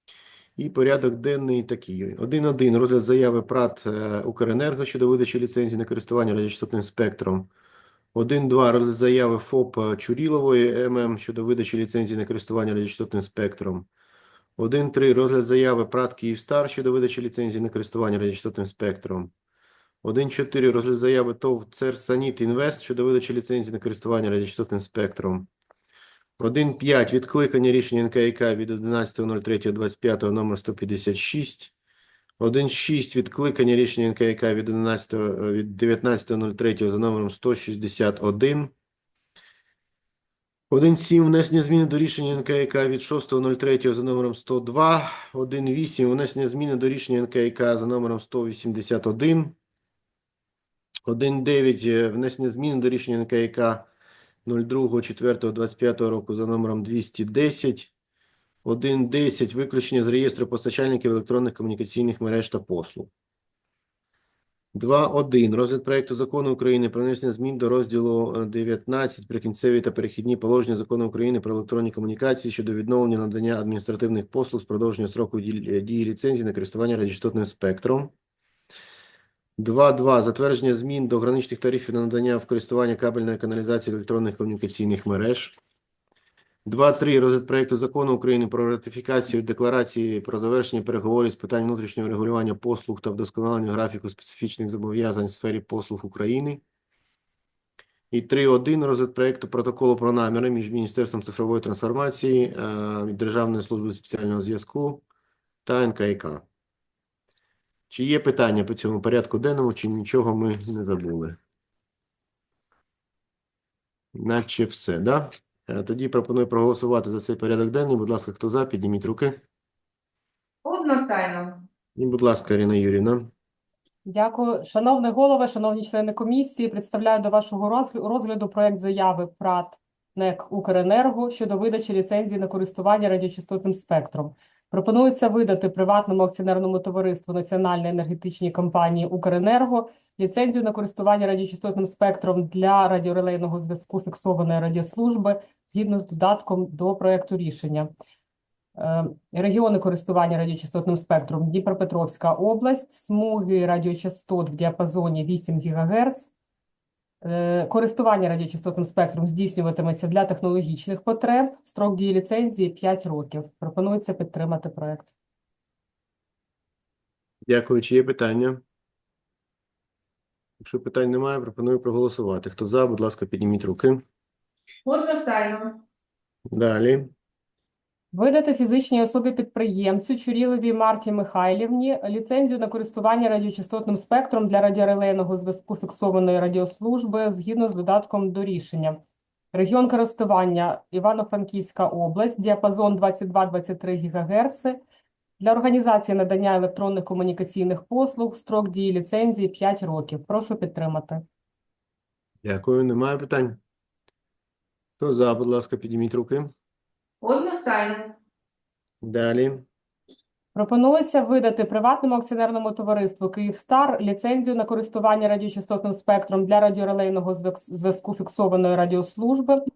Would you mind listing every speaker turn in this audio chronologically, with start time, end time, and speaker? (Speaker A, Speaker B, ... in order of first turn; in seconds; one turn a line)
Speaker A: 0.6-7.5
Speaker A: 8.1-13.9
Speaker A: 14.6-19.3
Speaker A: 20.0-25.5
Speaker A: 26.4-31.7
Speaker A: 32.4-38.7
Speaker A: 40.7-49.5
Speaker A: 51.0-53.9
Speaker A: 54.5-57.9
Speaker A: 58.6-63.1
Speaker A: 64.7-78.1
Speaker A: 79.6-85.6
Speaker A: 86.7-96.6
Speaker A: 98.1-105.0
Speaker A: 105.7-106.5
Speaker A: 107.9-111.4
Speaker A: 114.2-119.4
Speaker B: 120.7-121.7
Speaker A: 122.0-123.3
Speaker C: 124.1-147.9
Speaker C: 148.8-156.3
Speaker C: 157.2-165.1
Speaker A: 167.5-168.6
Speaker A: 170.6-174.0
Speaker B: 174.8-175.8
Speaker A: 176.5-177.1
Speaker C: 178.1-189.0
Speaker C: 189.5-194.8
Speaker C: 195.4-201.2
Speaker A: 202.4-203.6
Speaker A: 205.0-206.5
Speaker B: 207.2-208.2
Speaker A: 209.0-209.6
Speaker C: 210.5-219.6